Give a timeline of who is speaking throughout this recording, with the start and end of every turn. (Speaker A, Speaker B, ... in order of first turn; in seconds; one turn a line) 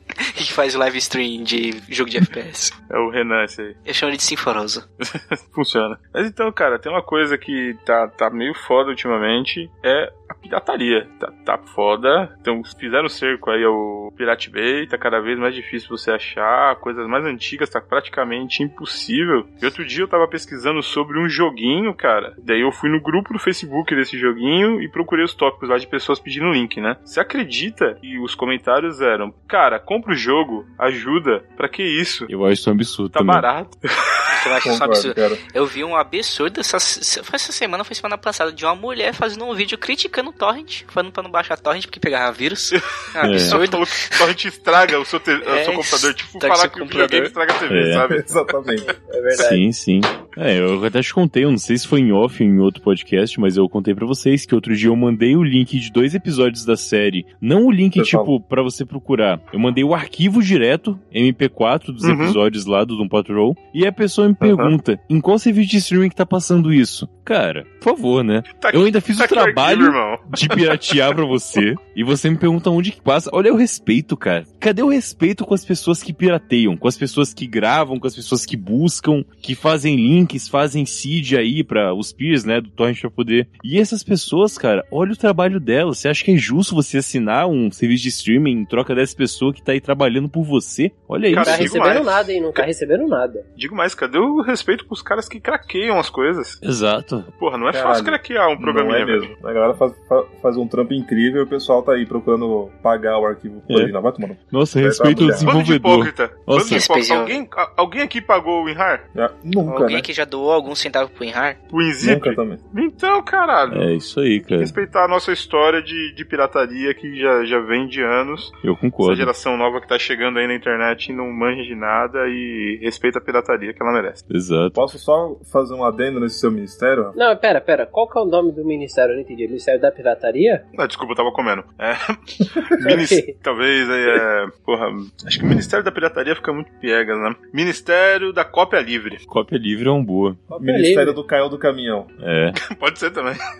Speaker A: 0.3-2.7
Speaker B: 2.9-3.8
Speaker A: 3.9-4.8
Speaker B: 5.1-32.3
Speaker C: 32.3-33.5
Speaker B: 33.1-33.8
Speaker A: 34.3-44.2
Speaker D: 34.6-35.4
Speaker C: 43.2-43.6
Speaker B: 43.2-48.4
Speaker A: 45.4-47.3
Speaker C: 47.7-48.0
Speaker D: 48.1-48.9
Speaker E: 49.1-49.6
Speaker C: 49.3-91.9
Speaker D: 58.0-58.3
Speaker B: 62.0-62.4
Speaker B: 64.4-64.7
Speaker B: 68.5-71.0
Speaker B: 91.2-92.6
Speaker E: 91.4-93.4
Speaker B: 93.5-96.6
Speaker C: 96.6-97.3
Speaker B: 97.4-99.3
Speaker D: 97.7-105.5
Speaker C: 103.7-103.9
Speaker C: 104.5-106.9
Speaker B: 105.3-109.0
Speaker A: 106.7-107.4
Speaker D: 109.1-110.1
Speaker A: 109.6-111.6
Speaker B: 111.7-114.0
Speaker D: 112.0-112.6
Speaker C: 113.7-114.7
Speaker B: 114.5-124.2
Speaker C: 118.6-119.3
Speaker C: 124.3-124.8
Speaker D: 124.7-127.2
Speaker E: 127.2-130.6
Speaker B: 130.7-139.2
Speaker E: 132.8-133.3
Speaker C: 139.3-140.4
Speaker E: 140.5-141.2
Speaker D: 140.6-142.1
Speaker C: 142.2-142.6
Speaker B: 142.6-143.4